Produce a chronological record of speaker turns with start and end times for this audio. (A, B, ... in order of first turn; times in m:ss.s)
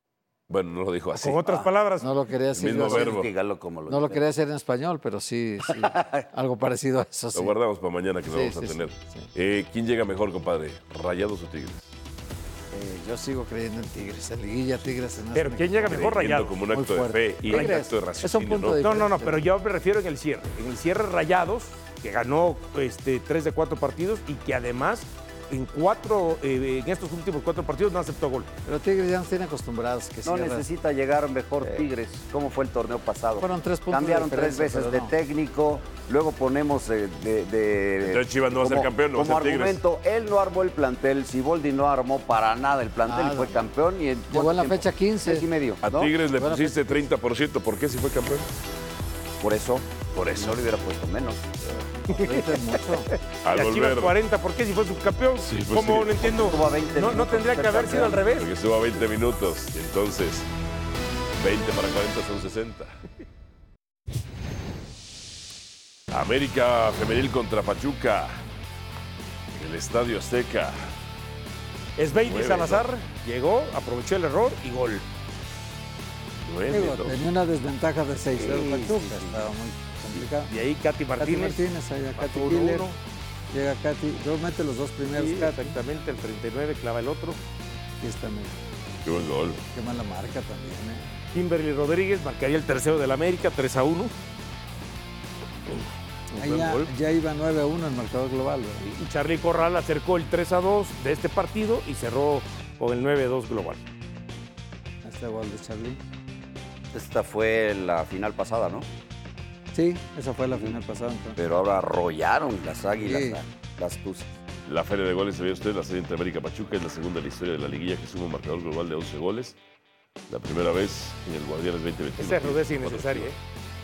0:00.5-0:01.7 A
0:01.1-0:02.1 B
0:02.0-0:03.2 C
0:02.5-0:03.3 A
0:02.7-0:04.2 D
0:03.9-0:07.6 C
0:05.7-0:06.2 D
0:07.3-0:11.9 A
0:08.2-0:09.3 C
0:12.7-0:16.1 C
0:15.3-0:16.5 B
0:15.9-0:18.8 A
0:16.7-0:19.4 C
0:17.4-0:17.8 B
0:18.8-0:28.5 B
0:28.6-0:30.7 C
0:30.2-0:46.1 D
0:33.4-0:35.1 C
0:38.0-0:39.8 A
0:43.0-0:43.5 C
0:44.3-0:45.5 C
0:45.8-0:48.5 A
0:46.4-0:47.1 C
0:49.4-0:51.5 D
0:50.1-0:50.6 A
0:52.1-0:53.1 C
0:52.2-0:58.5 B
0:53.4-0:54.1 A
0:55.4-0:56.2 A
0:56.2-0:58.2 D
0:58.3-1:00.5 A
1:01.4-1:02.9 A
1:06.1-1:08.4 A
1:09.5-1:10.9 A
1:12.0-1:15.0 B
1:12.2-1:12.8 A
1:16.4-1:17.2 A
1:16.7-1:20.5 C
1:18.4-1:19.3 B
1:20.5-1:21.6 B
1:21.2-1:22.9 C
1:22.2-1:23.0 B
1:23.5-1:25.7 C
1:25.1-1:27.4 B
1:28.0-1:28.6 C
1:29.0-1:29.6 A
1:29.7-1:31.1 C
1:31.3-1:34.1 B
1:35.7-1:36.9 B
1:36.4-1:38.9 C
1:38.8-1:43.8 B
1:45.0-1:46.0 C
1:46.9-1:48.9 D
1:49.7-1:51.4 C
1:51.4-1:54.3 D
1:53.0-1:53.4 C
1:54.7-1:59.6 A
2:00.3-2:03.3 A
2:02.2-2:03.4 B